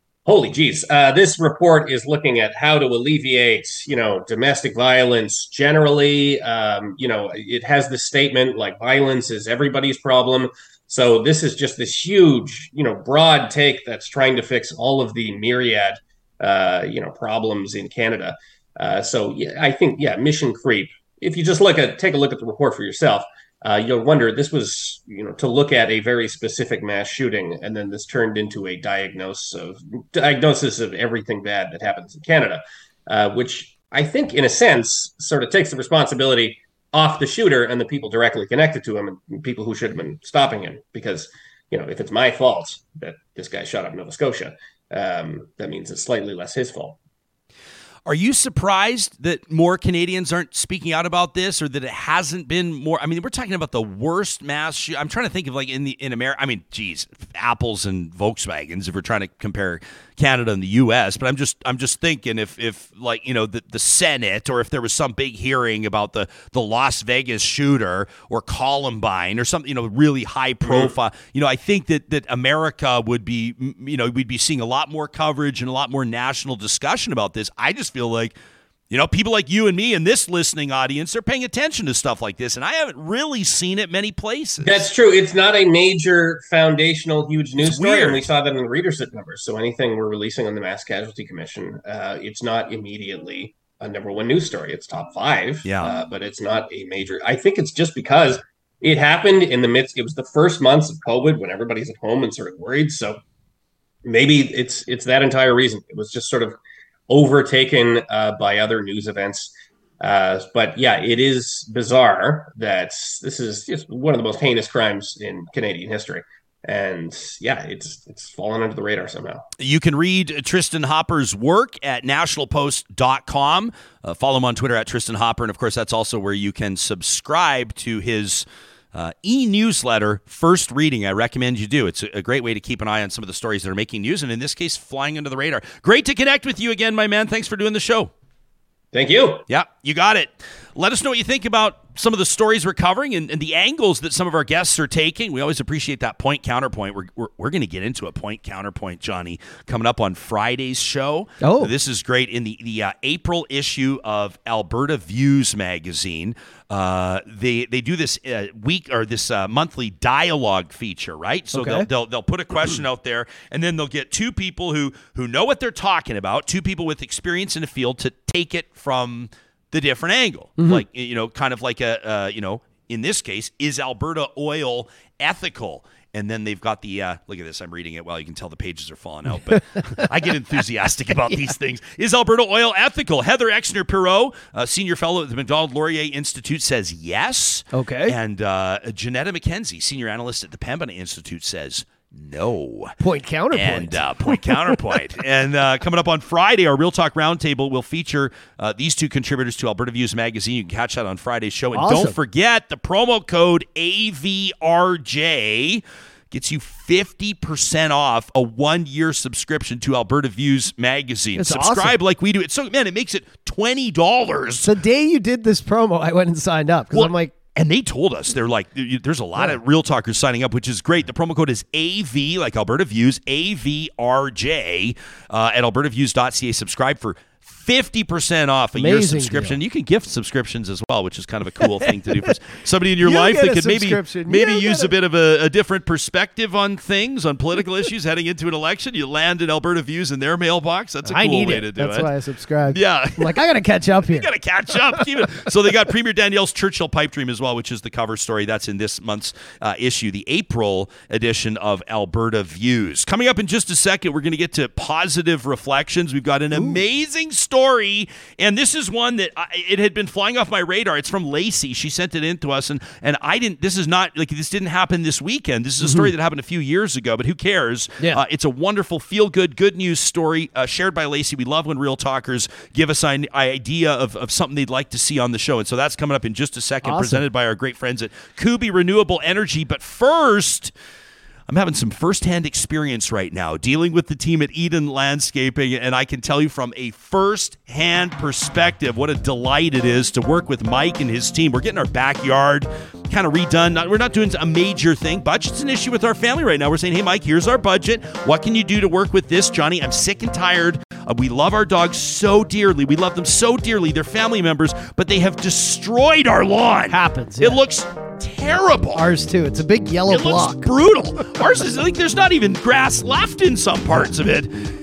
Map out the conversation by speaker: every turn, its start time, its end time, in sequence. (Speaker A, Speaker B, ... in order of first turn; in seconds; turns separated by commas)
Speaker A: 0.3-47.0, Speaker B: 48.1-78.4, Speaker A: 70.6-70.9, Speaker B: 78.9-84.9, Speaker A: 84.6-103.2, Speaker B: 87.6-88.3, Speaker B: 95.7-95.9, Speaker A: 104.0-106.6, Speaker A: 107.1-119.4, Speaker B: 119.6-138.1, Speaker A: 138.9-139.4, Speaker B: 139.5-192.9, Speaker C: 151.4-151.7, Speaker C: 161.5-161.9, Speaker C: 170.6-170.8, Speaker C: 187.7-188.2, Speaker C: 193.0-194.8, Speaker B: 193.5-214.7, Speaker C: 201.8-202.2, Speaker C: 211.4-212.0, Speaker C: 214.6-217.3, Speaker B: 216.9-242.1, Speaker C: 228.8-229.6, Speaker C: 233.0-234.9, Speaker C: 241.0-245.0, Speaker B: 242.7-243.4, Speaker B: 243.9-280.7, Speaker C: 265.8-266.1, Speaker C: 276.9-277.2, Speaker B: 281.5-309.1, Speaker C: 306.9-307.6, Speaker C: 308.9-310.7, Speaker B: 310.1-314.5